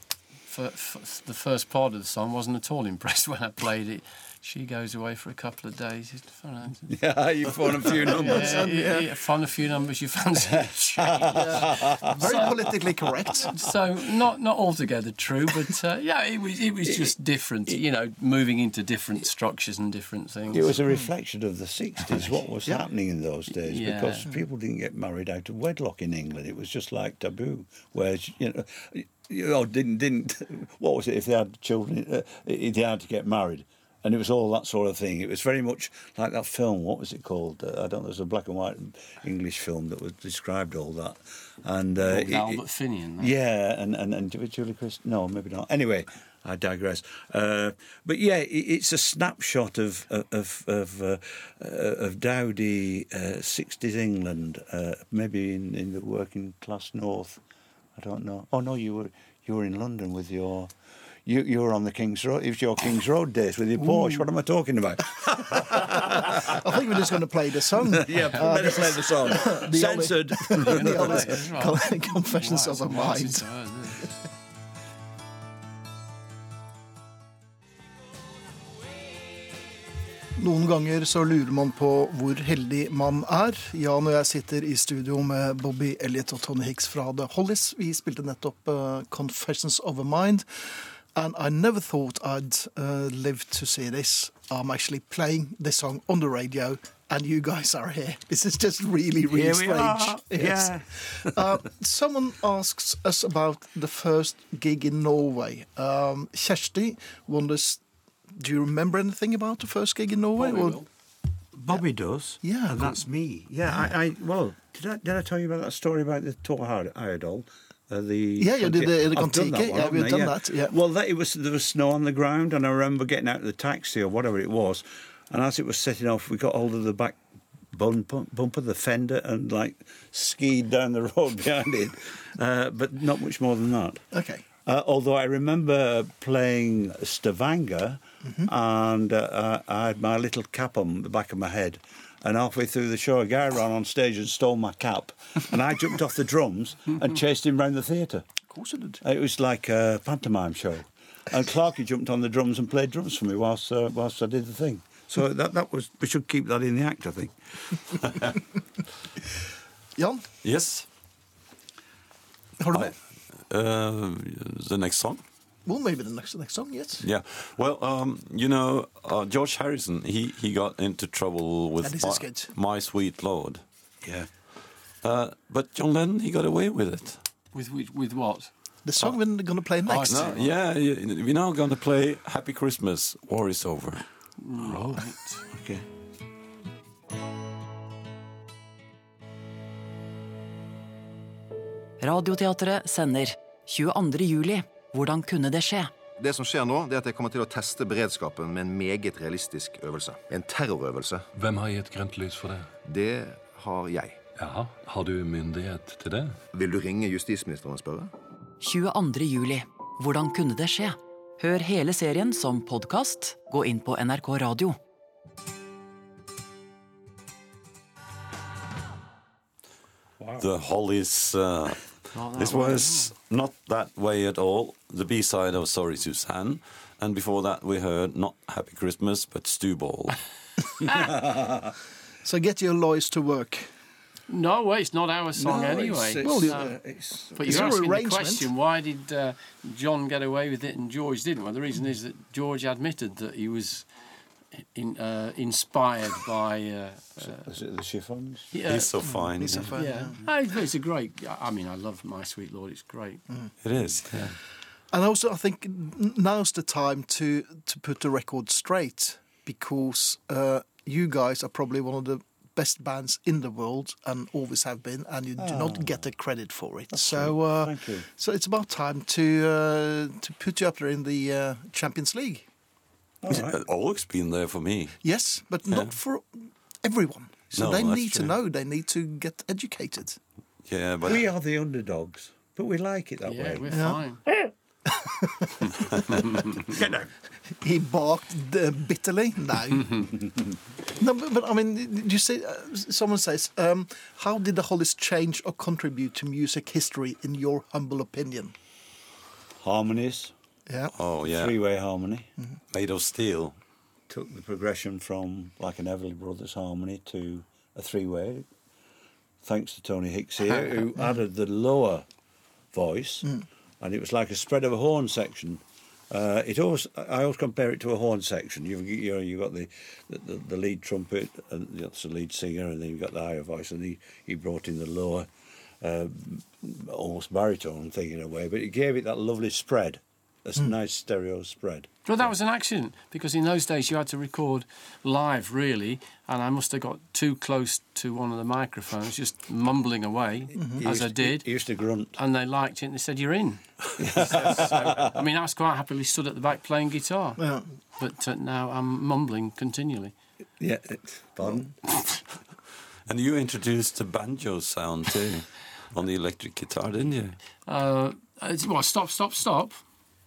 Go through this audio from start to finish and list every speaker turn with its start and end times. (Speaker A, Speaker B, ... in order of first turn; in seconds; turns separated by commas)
Speaker A: 0.5-6.9, Speaker B: 6.9-8.7, Speaker A: 8.1-12.6, Speaker C: 8.1-9.1, Speaker B: 11.0-12.6, Speaker C: 11.4-13.5, Speaker A: 13.5-20.8, Speaker B: 20.5-42.6, Speaker A: 23.6-24.2, Speaker A: 42.0-43.3, Speaker B: 43.2-57.4, Speaker B: 58.0-60.7, Speaker B: 61.2-67.1, Speaker C: 63.8-64.3, Speaker C: 66.0-73.5, Speaker B: 67.7-71.4, Speaker A: 68.1-68.8, Speaker A: 70.6-74.1, Speaker C: 80.3-110.8, Speaker B: 99.3-101.4, Speaker A: 110.4-110.8, Speaker B: 111.5-127.2, Speaker C: 112.4-113.0, Speaker C: 118.4-120.8, Speaker B: 127.7-134.1, Speaker C: 134.1-134.4, Speaker B: 134.6-148.3, Speaker C: 148.5-149.0, Speaker B: 149.0-158.3, Speaker C: 160.0-160.3, Speaker D: 160.4-160.9, Speaker C: 162.6-162.9, Speaker D: 163.5-165.2, Speaker C: 165.7-167.1, Speaker D: 167.0-173.6, Speaker C: 171.8-172.5, Speaker B: 174.0-174.3, Speaker D: 175.0-177.2, Speaker A: 177.5-178.5, Speaker C: 178.8-180.3, Speaker A: 179.9-180.5, Speaker D: 180.1-184.1, Speaker A: 184.4-185.4, Speaker B: 185.5-185.8, Speaker E: 192.0-195.9, Speaker F: 196.2-201.3, Speaker G: 201.3-202.7, Speaker F: 202.8-204.2, Speaker G: 204.4-206.4, Speaker F: 206.5-208.1, Speaker E: 208.6-214.8, Speaker D: 220.4-230.2, Speaker E: 222.2-222.8, Speaker C: 232.2-233.7, Speaker A: 234.3-236.7, Speaker B: 235.4-237.7, Speaker C: 236.2-238.5, Speaker A: 237.3-243.9, Speaker A: 244.8-247.4, Speaker B: 247.2-248.5, Speaker A: 248.5-248.9, Speaker D: 248.7-249.8, Speaker C: 249.1-250.2, Speaker A: 249.8-253.2, Speaker D: 253.6-254.4, Speaker C: 254.9-272.5, Speaker B: 265.4-266.0, Speaker B: 266.9-268.1, Speaker B: 273.2-273.6, Speaker D: 273.3-275.0, Speaker C: 275.0-280.2, Speaker D: 277.6-278.4, Speaker D: 280.7-281.3, Speaker B: 281.0-284.0, Speaker A: 283.2-284.2, Speaker C: 283.7-284.0, Speaker C: 284.9-285.6, Speaker B: 286.1-287.1, Speaker C: 287.4-290.1, Speaker C: 291.0-298.5, Speaker B: 299.6-300.3, Speaker C: 300.7-300.9, Speaker D: 301.0-301.6, Speaker B: 301.3-302.3, Speaker D: 302.7-303.6, Speaker B: 304.1-308.5, Speaker B: 309.4-312.1, Speaker B: 312.7-325.3, Speaker B: 325.8-331.9, Speaker A: 332.1-341.5, Speaker C: 340.6-340.8, Speaker B: 340.8-342.2, Speaker A: 342.1-343.6, Speaker B: 344.0-345.2, Speaker A: 344.1-347.4, Speaker C: 347.4-347.6, Speaker A: 348.0-350.1, Speaker B: 350.6-352.0, Speaker D: 353.1-357.4, Speaker A: 357.7-359.8